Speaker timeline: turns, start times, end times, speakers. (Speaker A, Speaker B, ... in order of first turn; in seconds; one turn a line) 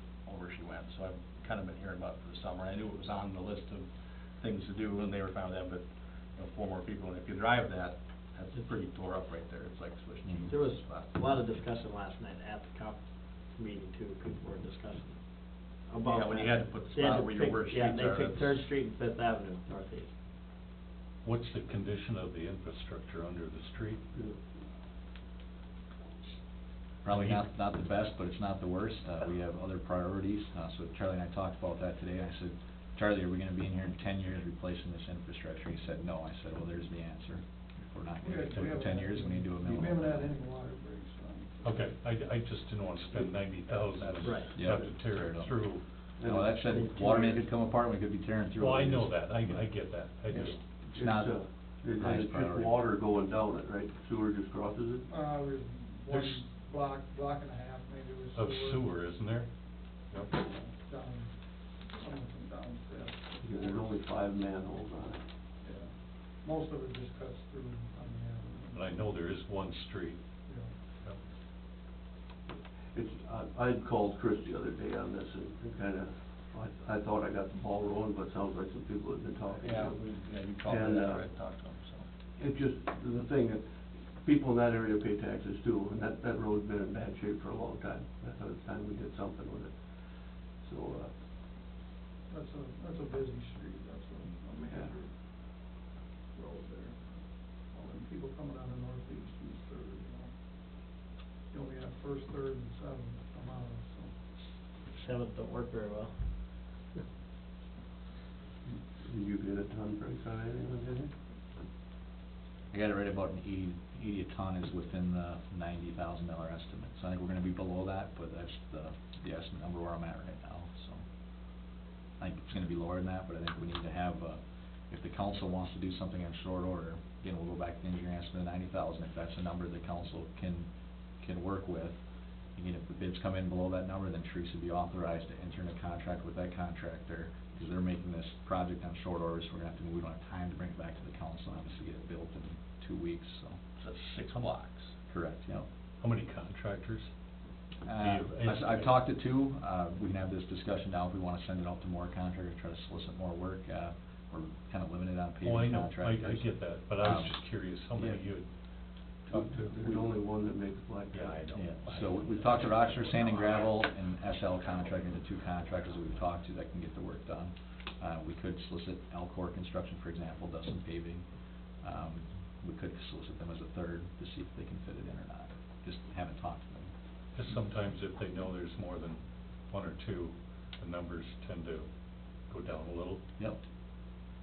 Speaker A: 0.2-11.2
Speaker B: 10.5-20.1
Speaker A: 16.0-18.7
Speaker C: 21.2-24.0
Speaker D: 27.0-40.3
Speaker C: 27.1-27.4
Speaker E: 38.2-41.9
Speaker C: 41.6-45.8
Speaker B: 44.2-44.5
Speaker D: 44.5-45.7
Speaker F: 46.2-47.4
Speaker D: 46.2-49.7
Speaker C: 48.6-50.6
Speaker F: 50.3-55.1
Speaker D: 50.9-51.4
Speaker D: 52.0-52.8
Speaker E: 55.1-58.9
Speaker C: 56.1-56.4
Speaker C: 58.3-59.5
Speaker C: 60.1-60.4
Speaker E: 60.3-61.3
Speaker E: 61.9-63.9
Speaker F: 63.4-65.2
Speaker E: 65.6-65.9
Speaker E: 66.4-69.1
Speaker C: 68.7-70.2
Speaker F: 72.9-80.1
Speaker A: 79.5-82.1
Speaker F: 80.6-81.3
Speaker F: 82.4-91.1
Speaker E: 92.3-95.1
Speaker E: 96.3-100.3
Speaker E: 101.5-104.1
Speaker B: 104.9-106.9
Speaker F: 108.7-111.1
Speaker D: 112.7-121.0
Speaker D: 122.2-132.0
Speaker D: 132.6-143.6
Speaker A: 143.8-144.9
Speaker D: 145.1-145.7
Speaker C: 146.0-147.1
Speaker D: 147.8-157.4
Speaker C: 148.0-148.9
Speaker C: 155.4-158.5
Speaker C: 159.3-160.1
Speaker F: 159.3-161.4
Speaker C: 161.1-163.7
Speaker D: 161.5-171.3
Speaker D: 171.8-176.9
Speaker C: 177.3-181.9
Speaker C: 182.5-183.2